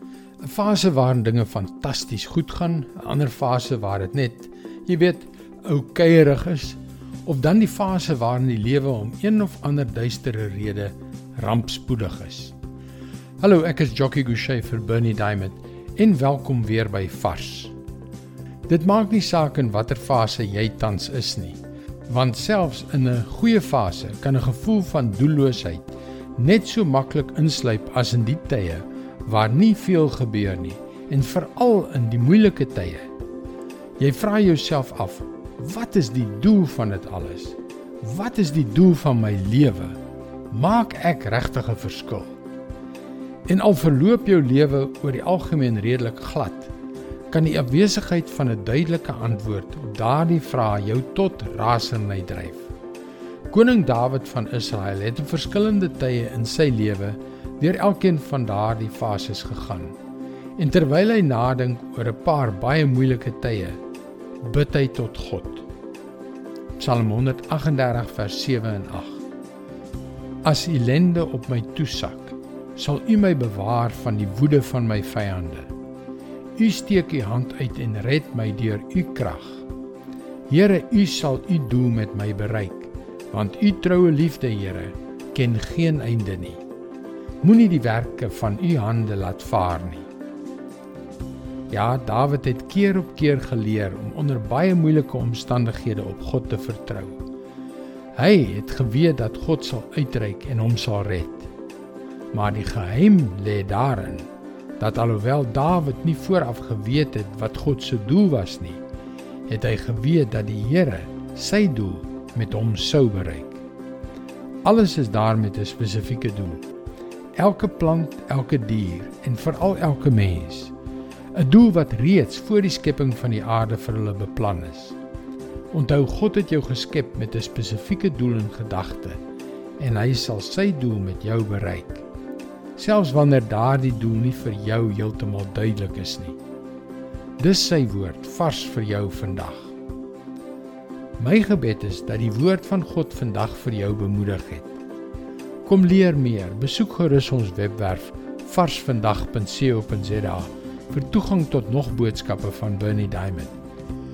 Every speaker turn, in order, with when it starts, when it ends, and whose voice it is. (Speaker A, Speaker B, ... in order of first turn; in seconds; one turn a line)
Speaker A: 0.4-12.5
Speaker A: 13.4-17.7
Speaker A: 18.7-33.1
Speaker A: 34.0-40.0
Speaker A: 40.5-42.4
Speaker A: 43.5-46.7
Speaker A: 47.3-52.7
Speaker A: 53.5-60.0
Speaker A: 60.6-63.8
Speaker A: 64.4-65.7
Speaker A: 66.8-69.2
Speaker A: 70.4-75.7
Speaker A: 76.6-79.6
Speaker A: 80.5-86.6
Speaker A: 87.4-90.1
Speaker A: 91.7-97.2
Speaker A: 98.2-101.5
Speaker A: 102.3-108.8
Speaker A: 109.5-113.6
Speaker A: 114.6-116.7
Speaker A: 117.4-120.7
Speaker A: 121.3-125.0
Speaker A: 125.7-129.2
Speaker A: 129.8-132.1
Speaker A: 132.8-136.4
Speaker A: 137.4-139.7
Speaker A: 141.2-144.7
Speaker A: 145.7-153.6